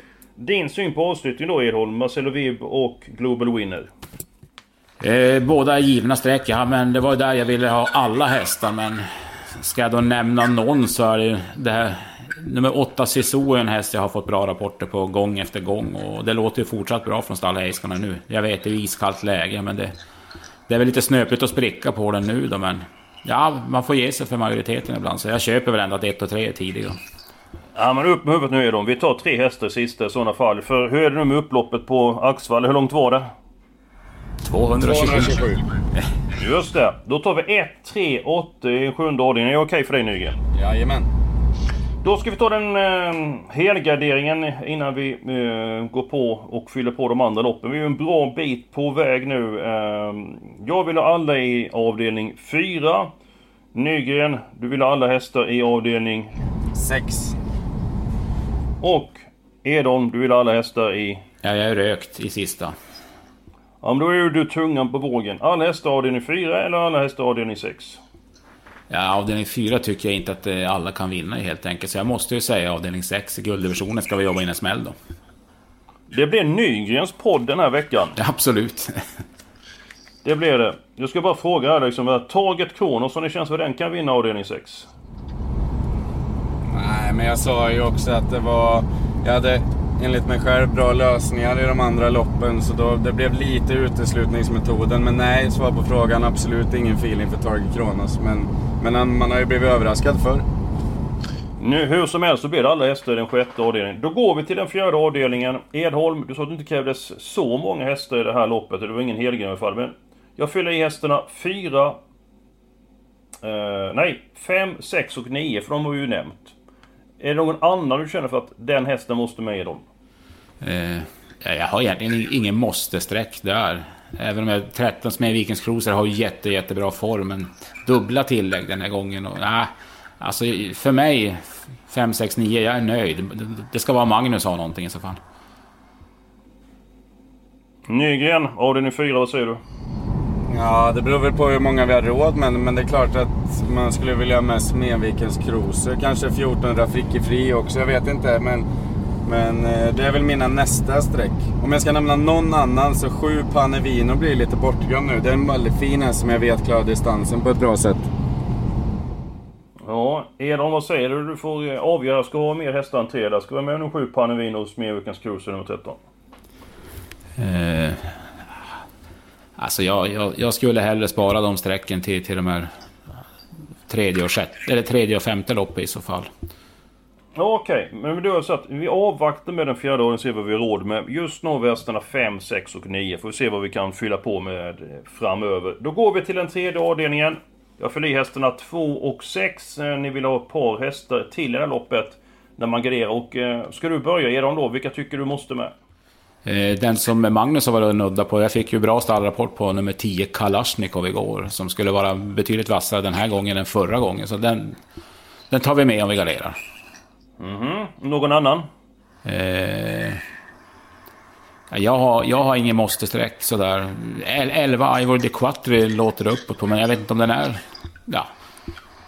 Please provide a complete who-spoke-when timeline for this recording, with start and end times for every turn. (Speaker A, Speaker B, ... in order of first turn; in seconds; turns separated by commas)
Speaker A: 0.4-3.9, Speaker B: 5.0-19.9, Speaker B: 20.7-27.0, Speaker A: 27.8-33.3, Speaker B: 34.4-35.5, Speaker C: 34.8-35.6, Speaker A: 36.4-40.4, Speaker C: 40.5-41.1, Speaker A: 42.0-53.1, Speaker A: 53.7-56.3, Speaker C: 56.7-57.4, Speaker A: 58.8-61.2, Speaker B: 61.4-62.8, Speaker A: 63.8-68.0, Speaker B: 68.9-75.0, Speaker A: 76.1-78.2, Speaker B: 78.2-79.0, Speaker A: 80.2-84.9, Speaker C: 86.7-100.5, Speaker A: 101.6-112.0, Speaker A: 113.4-116.5, Speaker A: 117.2-119.9, Speaker B: 120.6-135.2, Speaker A: 137.9-139.6, Speaker C: 140.5-148.7, Speaker C: 149.2-158.1, Speaker A: 159.8-166.0, Speaker B: 167.4-168.2, Speaker B: 169.6-172.7, Speaker B: 173.9-176.3, Speaker A: 177.4-195.7, Speaker B: 196.4-204.8, Speaker B: 205.5-206.6, Speaker A: 207.4-208.7, Speaker B: 209.2-210.2, Speaker B: 211.7-218.3